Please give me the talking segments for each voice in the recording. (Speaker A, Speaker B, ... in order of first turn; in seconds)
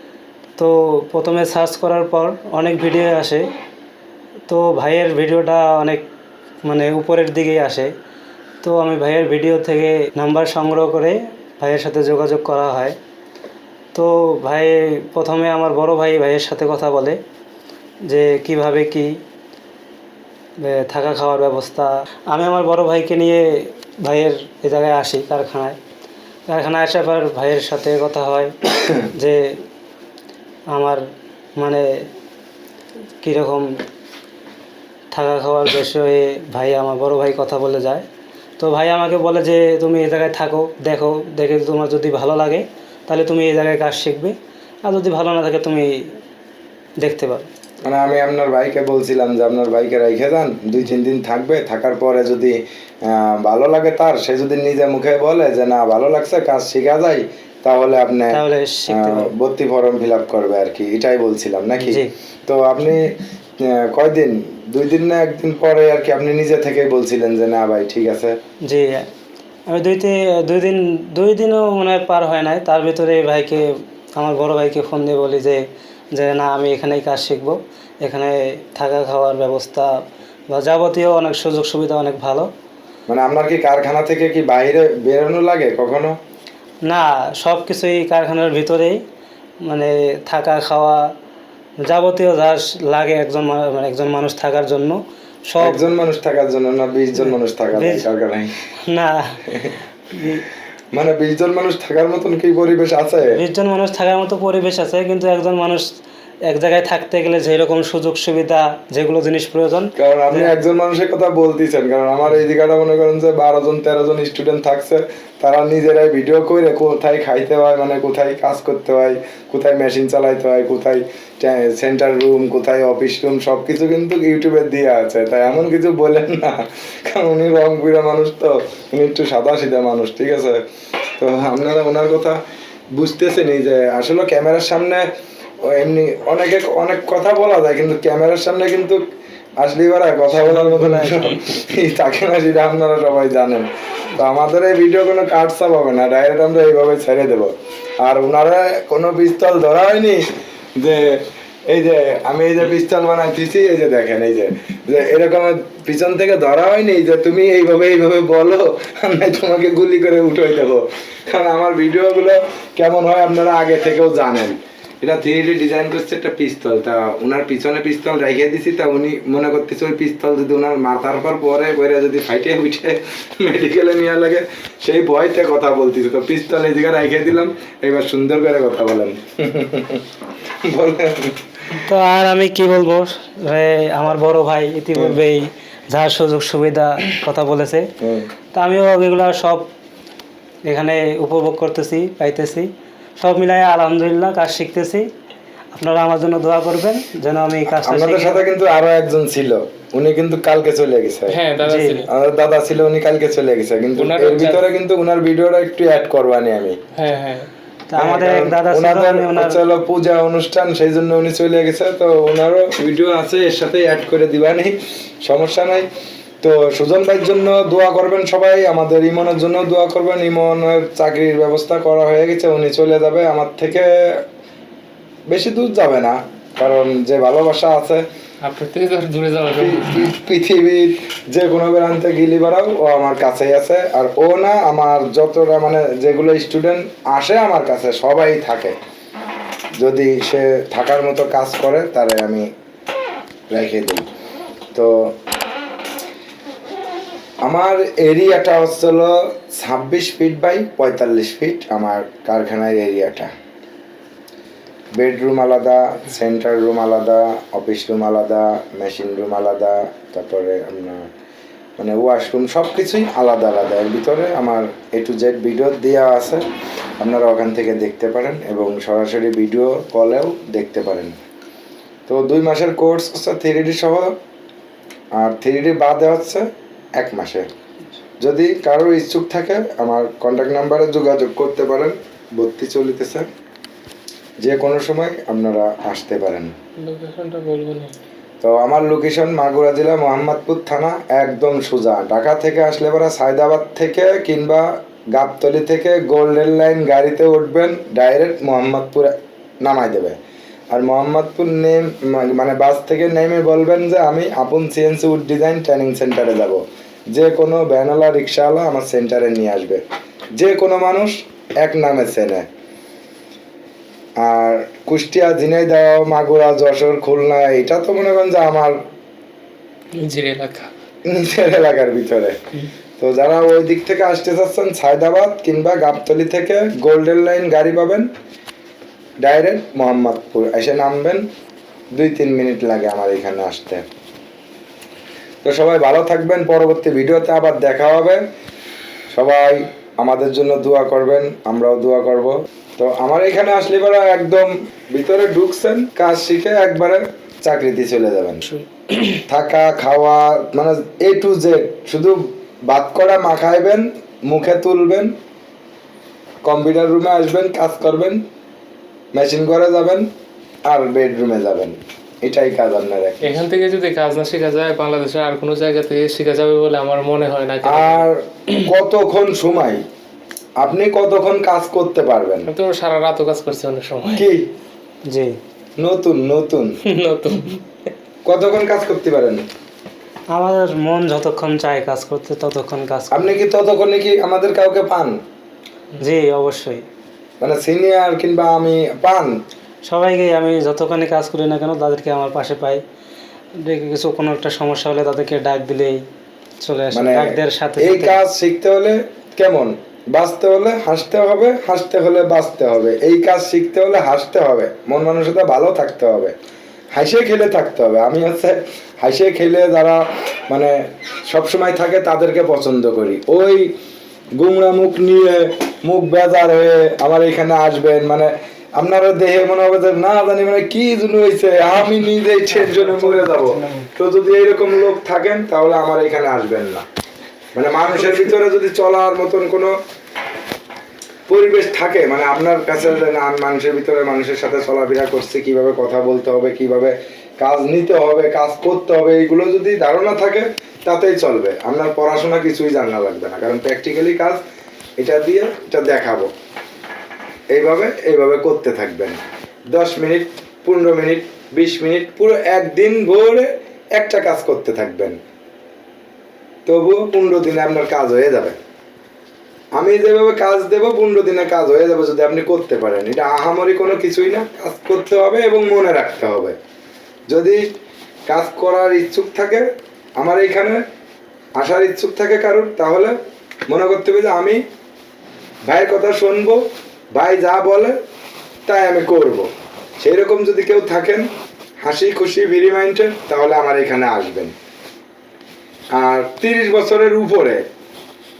Speaker A: 0.6-3.5, 4.5-6.0, 6.7-7.9, 8.6-13.0, 13.9-17.2, 18.1-19.1, 20.6-25.8, 26.5-28.6, 29.1-29.6, 30.7-31.0, 31.6-32.1, 33.2-33.7, 35.1-38.0, 38.6-45.9, 47.0-47.5, 58.3-59.3, 61.8-62.1, 68.7-69.1, 69.7-75.6, 76.1-79.9, 80.5-82.5, 86.8-89.0, 89.6-91.0, 91.8-95.8, 97.2-98.1, 98.9-99.5, 100.1-100.4, 103.3-105.8, 106.5-110.5, 181.7-187.9, 188.5-189.7, 190.7-195.1, 195.7-198.4, 201.6-202.0, 207.9-209.6, 375.1-375.3, 380.3-383.3, 386.0-386.8, 389.9-392.8, 393.6-396.0, 396.6-398.2
Speaker B: 47.9-68.3, 83.1-86.2, 95.6-98.5, 100.9-103.4, 110.0-130.6, 131.2-132.4, 132.9-135.0, 135.7-139.0, 139.6-147.5, 148.0-150.2, 150.8-180.0, 180.6-181.3, 188.0-188.3, 197.7-201.4, 202.1-206.8, 208.0-215.8, 216.4-224.2, 225.3-228.0, 229.5-238.7, 239.8-242.5, 243.5-244.1, 247.4-253.3, 254.9-261.1, 261.8-266.4, 267.0-271.2, 272.1-274.1, 275.2-276.4, 277.0-277.5, 278.2-283.2, 284.4-286.5, 288.4-300.2, 300.7-306.6, 307.1-309.8, 310.4-312.4, 314.2-318.8, 321.1-322.4, 323.0-328.1, 329.2-331.2, 331.9-333.8, 335.4-338.2, 339.1-348.4, 349.3-355.1, 356.4-358.2, 359.1-360.1, 360.6-363.4, 367.6-369.8, 370.6-372.5, 374.1-374.5, 375.8-376.7, 378.2-379.4, 383.1-385.2, 387.4-389.3, 396.9-397.3, 397.8-406.3, 406.9-410.7, 411.3-413.7, 414.4-426.8, 427.5-429.7, 431.3-444.4, 445.0-446.3, 447.5-449.2, 449.7-455.2, 456.6-458.6, 459.8-466.6, 467.3-467.6, 468.3-469.6, 470.2-470.8, 471.6-473.1, 473.7-474.6, 475.7-476.6, 477.1-477.9, 478.7-479.5, 480.0-481.3, 481.8-484.5, 486.0-487.6
Speaker C: 140.5-141.2, 201.3-202.1, 204.0-204.7, 206.9-207.5, 228.4-230.1, 286.8-287.9, 320.0-320.7, 348.6-349.2, 363.2-368.1, 372.5-374.2, 376.9-377.6, 422.7-423.6